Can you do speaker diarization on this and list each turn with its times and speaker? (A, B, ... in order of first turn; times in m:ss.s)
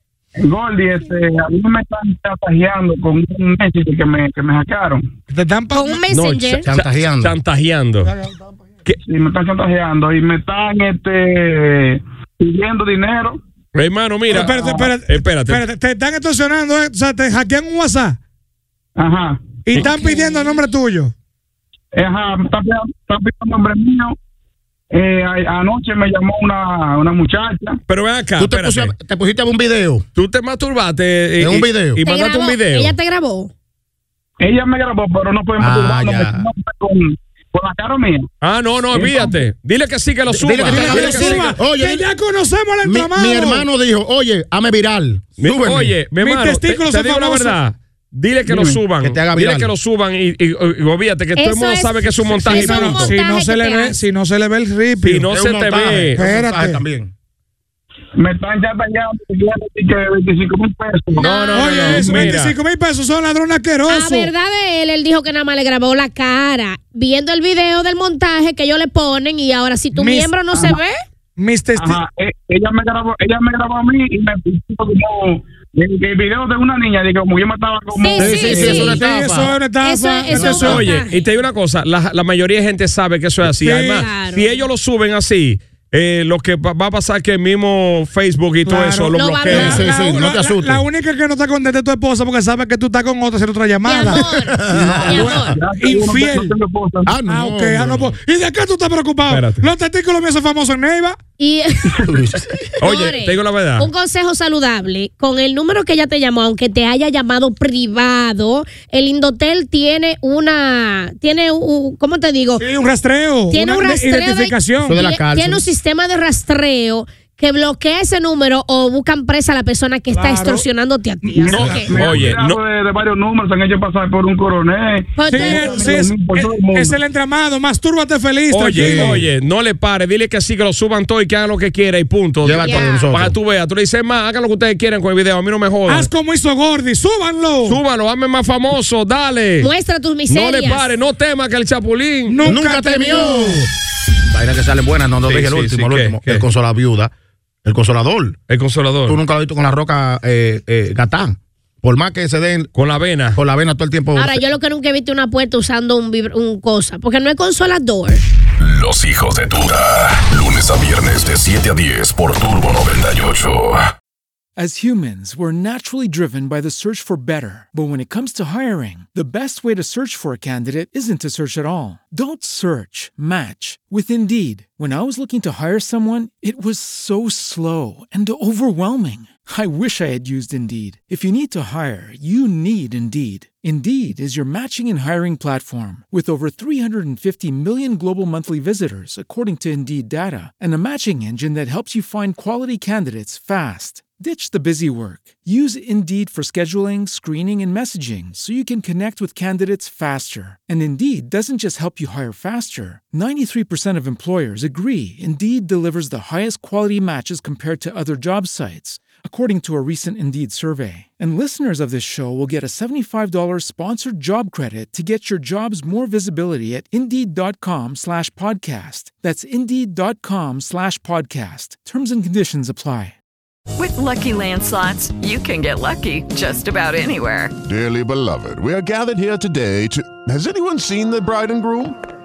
0:00.4-0:05.0 A
0:05.3-0:06.0 B
0:05.7-0:06.7 C
0:06.1-0:08.1 D
0:06.6-0:07.4 E
0:08.1-0:08.4 B
0:09.1-0:13.4 A
0:13.7-0:15.6 D
0:14.3-0:18.2 B
0:14.4-0:14.8 A
0:19.0-0:19.4 A
0:19.7-0:21.1 B
0:20.0-0:20.4 C
0:22.0-0:24.1 A
0:24.9-0:27.8 A
0:27.9-0:28.9 D
0:28.4-0:30.0 E
0:30.2-0:32.9 D
0:31.4-0:32.0 E
0:32.0-0:33.5 C
0:34.4-0:38.2 A
0:35.6-0:36.5 E
0:38.4-0:41.5 D
0:40.3-0:42.1 E
0:40.6-0:43.7 B
0:42.8-0:46.0 E
0:45.4-0:53.1 D
0:46.2-0:47.6 B
0:48.5-0:48.8 A
0:49.0-0:49.7 E
0:51.4-0:54.0 C
0:52.4-0:55.3 B
0:55.0-0:56.2 D
0:55.3-0:57.1 E
0:56.2-0:56.8 B
0:58.2-1:01.2 A
1:01.2-1:02.3 C
1:01.2-1:02.6 D
1:01.5-1:04.3 B
1:03.9-1:11.0 C
1:10.0-1:10.8 B
1:11.4-1:12.0 B
1:11.8-1:18.4 A
1:18.0-1:19.0 C
1:18.1-1:19.6 E
1:18.3-1:21.0 B
1:19.8-1:21.2 C
1:20.4-1:29.9 D
1:23.6-1:24.0 B
1:23.8-1:24.5 C
1:28.7-1:34.2 B
1:29.2-1:29.8 C
1:29.5-1:30.8 E
1:33.8-1:35.6 C
1:34.5-1:35.5 E
1:34.9-1:36.6 B
1:35.5-1:37.1 A
1:37.1-1:38.1 E
1:37.3-1:41.2 B
1:39.3-1:39.7 D
1:41.4-1:41.9 C
1:42.1-1:42.6 E
1:42.8-1:43.9 D
1:42.8-1:52.6 C
1:52.6-1:55.0 B
1:53.5-2:02.0 C
1:54.9-1:55.6 E
2:00.1-2:00.6 B
2:01.2-2:02.2 B
2:01.5-2:02.6 D
2:01.9-2:05.1 A
2:05.2-2:06.1 C
2:05.2-2:09.2 B
2:05.6-2:06.9 A
2:08.5-2:16.1 D
2:08.7-2:09.3 E
2:12.4-2:13.4 E
2:12.6-2:13.0 C
2:15.9-2:17.8 B
2:17.7-2:19.7 D
2:19.6-2:20.8 C
2:20.3-2:22.4 D
2:22.3-2:23.6 B
2:22.4-2:23.7 E
2:24.3-2:27.1 E
2:25.3-2:26.4 D
2:27.6-2:28.4 E
2:28.5-2:29.2 D
2:29.1-2:32.7 E
2:32.8-2:33.4 D
2:33.4-2:34.4 E
2:34.2-2:38.2 C
2:38.6-2:43.8 F
2:44.6-3:43.2 G
3:43.8-3:47.5 H
3:47.6-3:52.0 I